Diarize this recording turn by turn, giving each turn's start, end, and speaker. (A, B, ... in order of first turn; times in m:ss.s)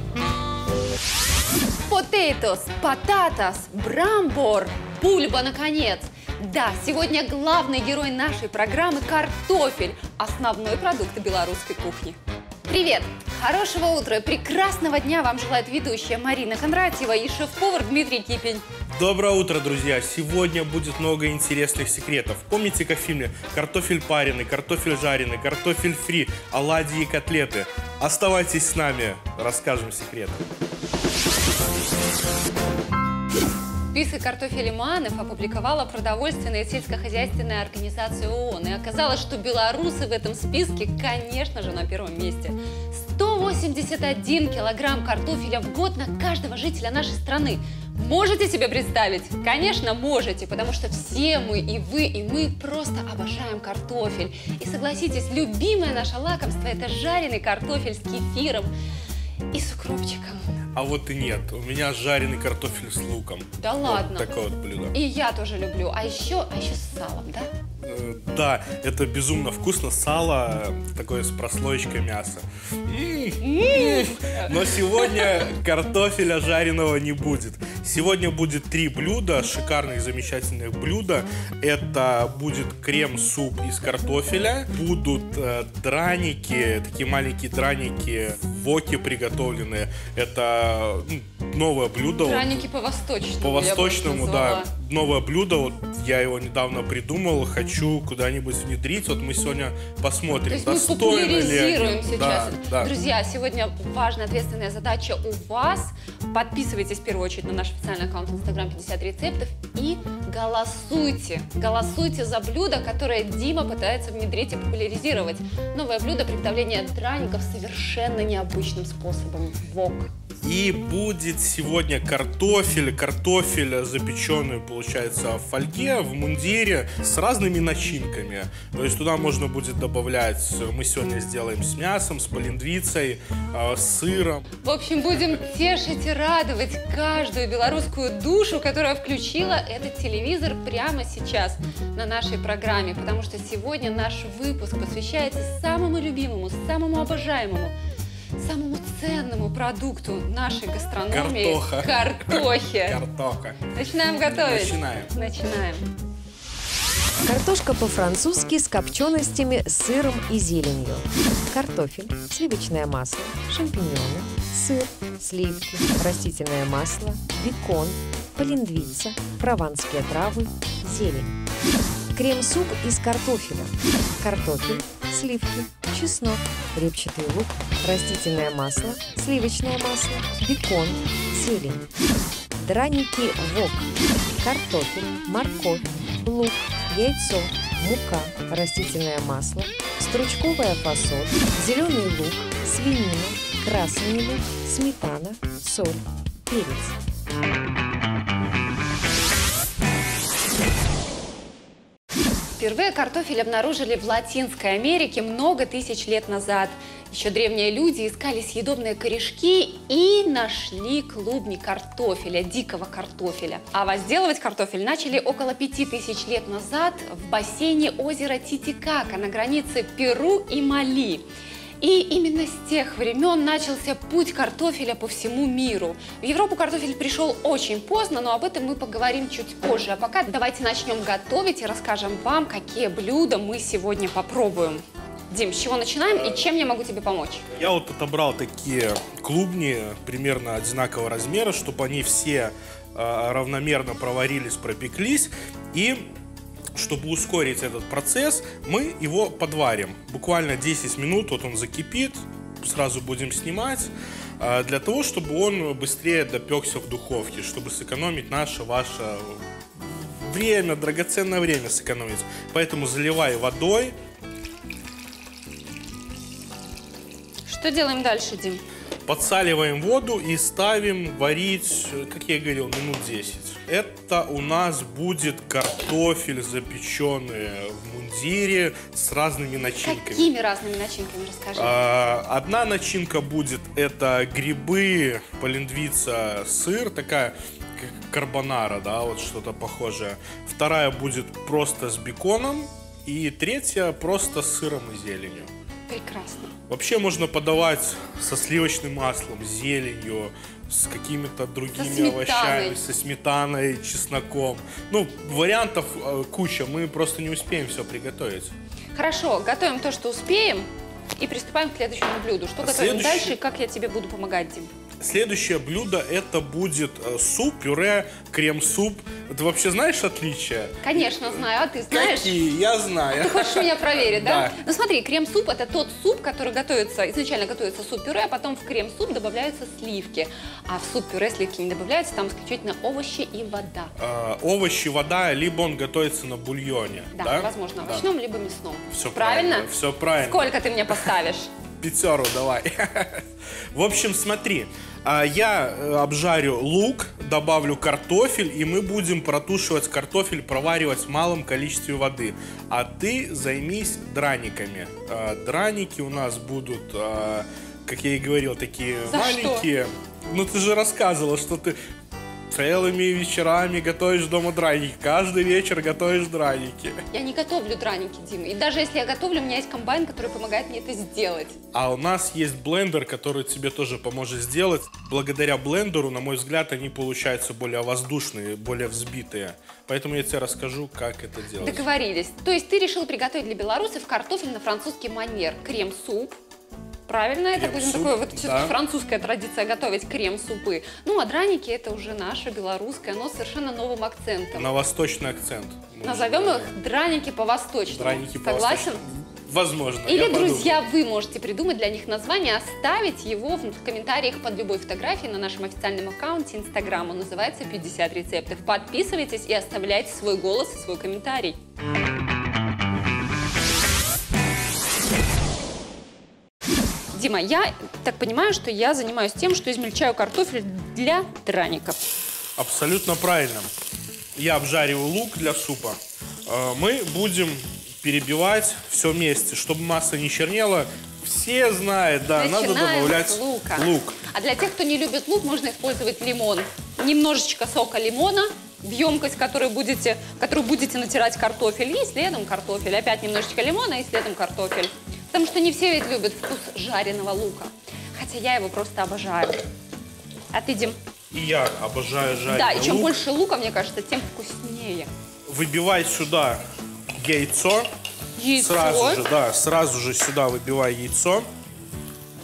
0:01.9-0:12.2 A
0:12.7-0:18.6 A
0:18.9-0:30.4 B
0:33.9-0:58.7 A
0:59.5-1:00.4 A
1:00.7-1:04.9 B
1:03.6-1:04.3 A
1:04.9-1:07.5 A
1:07.8-1:32.6 B
1:13.4-1:15.3 A
1:32.2-1:34.7 A
1:33.4-1:42.9 B
1:40.5-2:00.1 A
2:00.4-2:14.4 B
2:14.6-2:27.7 A
2:28.4-2:33.0 A
2:31.1-2:33.7 B
2:33.7-2:35.9 A
2:34.3-2:35.1 B
2:37.2-2:51.4 C
2:52.1-3:01.9 C
3:02.6-3:17.0 C
3:22.6-3:41.2 A
3:41.8-3:57.4 A
3:57.6-4:06.1 B
4:06.7-4:23.9 B
4:27.4-4:28.6 A
4:29.0-4:40.3 B
4:39.8-4:41.8 A
4:41.6-4:55.5 B
4:55.9-4:56.5 A
4:56.7-5:08.5 B
5:01.7-5:02.8 A
5:08.9-5:14.7 A
5:12.6-5:13.3 B
5:15.0-5:24.5 B
5:20.8-5:22.4 A
5:23.2-5:33.9 A
5:34.0-5:38.1 B
5:37.1-5:39.7 A
5:38.9-5:41.0 B
5:40.2-5:41.5 A
5:41.8-6:01.8 B
5:59.1-5:59.6 A
6:02.5-6:07.0 B
6:07.1-6:11.6 A
6:11.7-6:21.8 B
6:21.6-6:26.4 A
6:27.1-6:34.7 A
6:27.5-6:28.7 B
6:34.5-6:36.7 B
6:36.0-6:39.0 A
6:37.9-6:40.8 B
6:40.0-6:51.6 A
6:57.1-7:02.0 A
7:02.6-7:03.7 B
7:04.4-7:14.2 B
7:12.4-7:29.6 A
7:30.5-7:31.0 A
7:31.3-7:33.1 B
7:32.5-7:35.1 A
7:35.5-7:36.6 B
7:37.2-7:37.9 B
7:38.4-7:39.2 A
7:38.6-7:41.5 B